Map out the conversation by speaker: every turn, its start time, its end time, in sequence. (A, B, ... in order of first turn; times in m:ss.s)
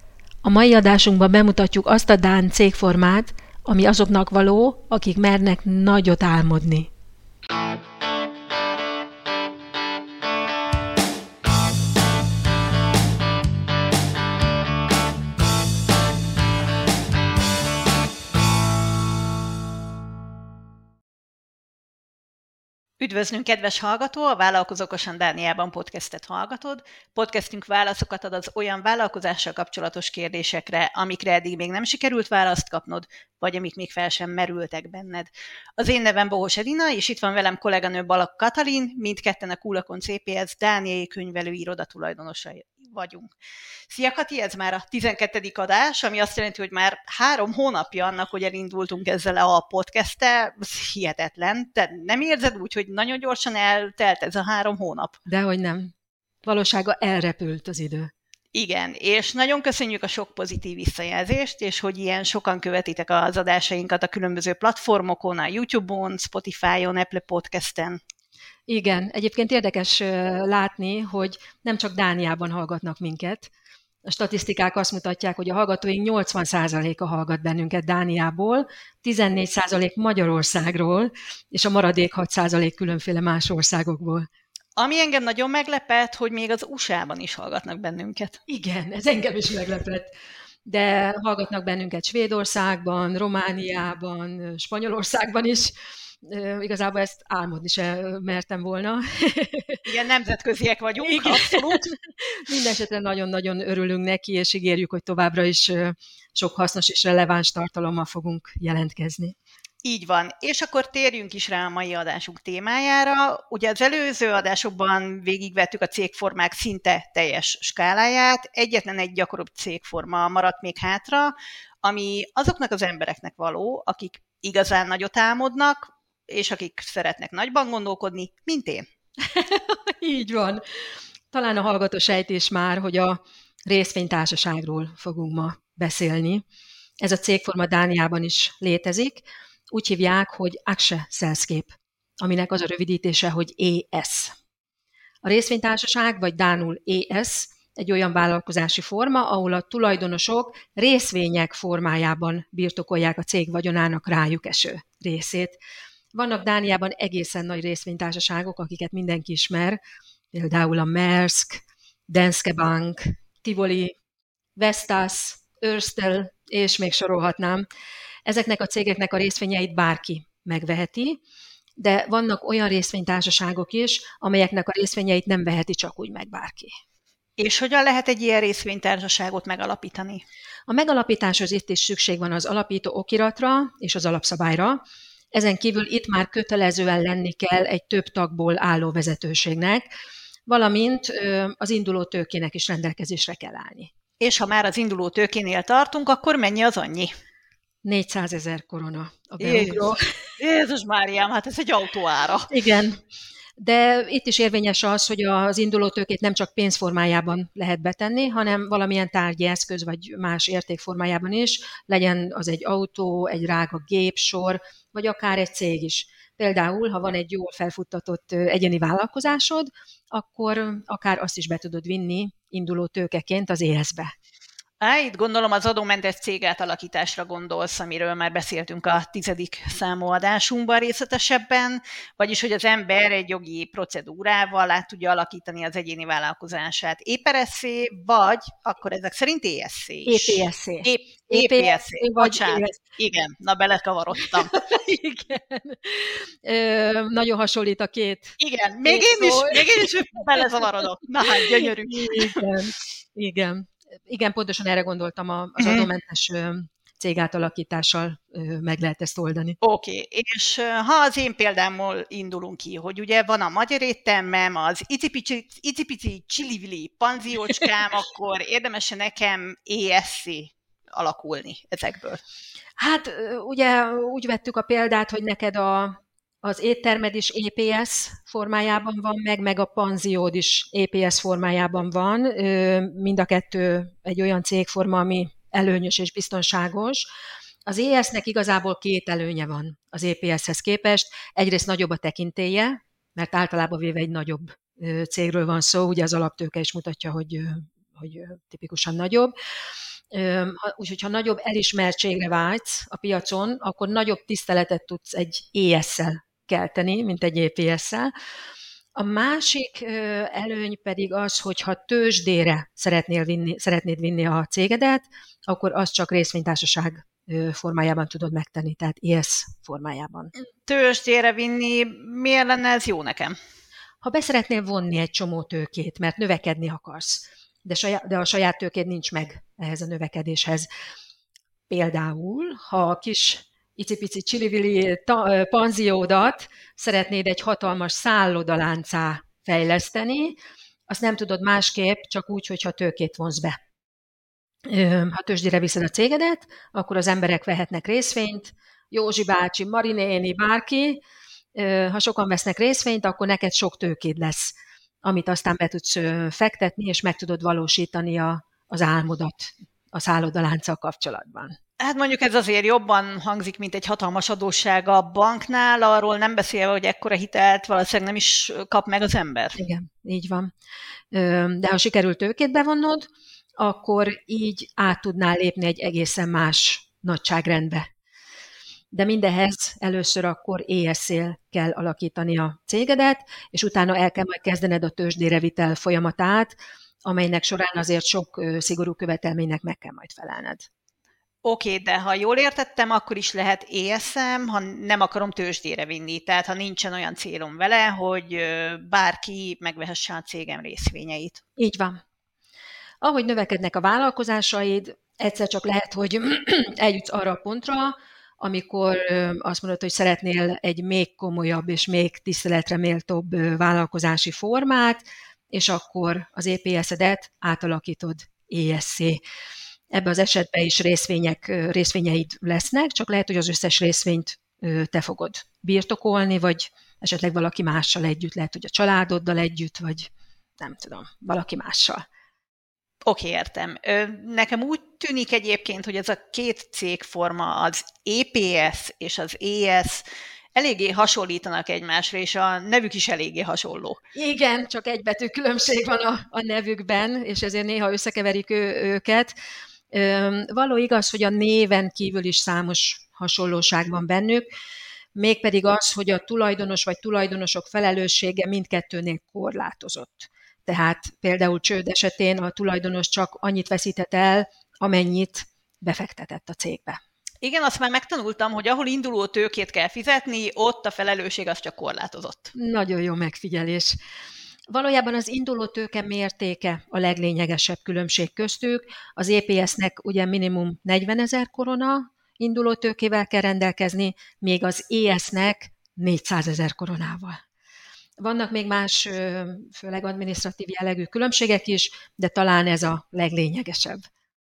0:00.4-0:06.9 A
0:23.0-0:43.3 B
0:43.9-0:55.2 B
0:55.3-0:55.9 A
0:56.4-0:58.1 A
0:58.5-1:08.0 B
1:08.7-1:13.5 A
1:14.0-1:24.3 A
1:24.8-1:28.4 B
1:28.5-1:39.8 A
1:39.9-1:41.9 B
1:41.0-1:49.4 A
1:49.8-2:08.8 B
2:09.3-2:10.6 A
2:11.3-2:16.4 A
2:17.0-2:24.3 A
2:25.2-2:35.6 A
2:36.1-2:39.8 A
2:40.3-2:43.9 A
2:44.6-2:47.7 A
2:48.3-2:51.2 A
2:51.8-2:56.7 A
2:57.4-3:00.2 B
3:00.7-3:04.8 A
3:05.3-3:09.9 A
3:10.5-3:13.9 A
3:14.2-3:17.1 B
3:17.8-3:20.1 A
3:19.4-3:22.5 B
3:22.5-3:23.0 A
3:23.6-3:44.1 A
3:44.8-4:04.5 B
4:00.1-4:02.8 A
4:04.2-4:10.6 A
4:08.4-4:12.4 B
4:11.9-4:19.6 A
4:15.6-4:15.9 B
4:19.6-4:32.2 B
4:32.8-4:47.1 A
4:47.7-4:59.3 A
5:00.1-5:08.1 A
5:09.0-5:20.3 A
5:20.7-5:23.4 B
5:24.0-5:30.7 A
5:31.7-5:40.4 A
5:40.9-5:43.6 A
5:44.7-5:51.0 A
5:51.6-6:01.6 A
6:01.8-6:09.6 B
6:09.6-6:10.5 A
6:11.1-6:17.9 A
6:18.9-6:30.7 A
6:31.4-6:41.4 B
6:41.6-6:42.0 A
6:43.0-6:59.2 A
6:59.9-7:12.0 A
7:13.1-7:20.0 B
7:20.6-7:24.0 B
7:24.2-7:29.3 A
7:29.9-7:34.5 A
7:35.2-7:47.0 A
7:47.4-7:52.5 B
7:52.6-7:54.0 A
7:54.7-8:07.4 A
8:08.2-8:14.0 A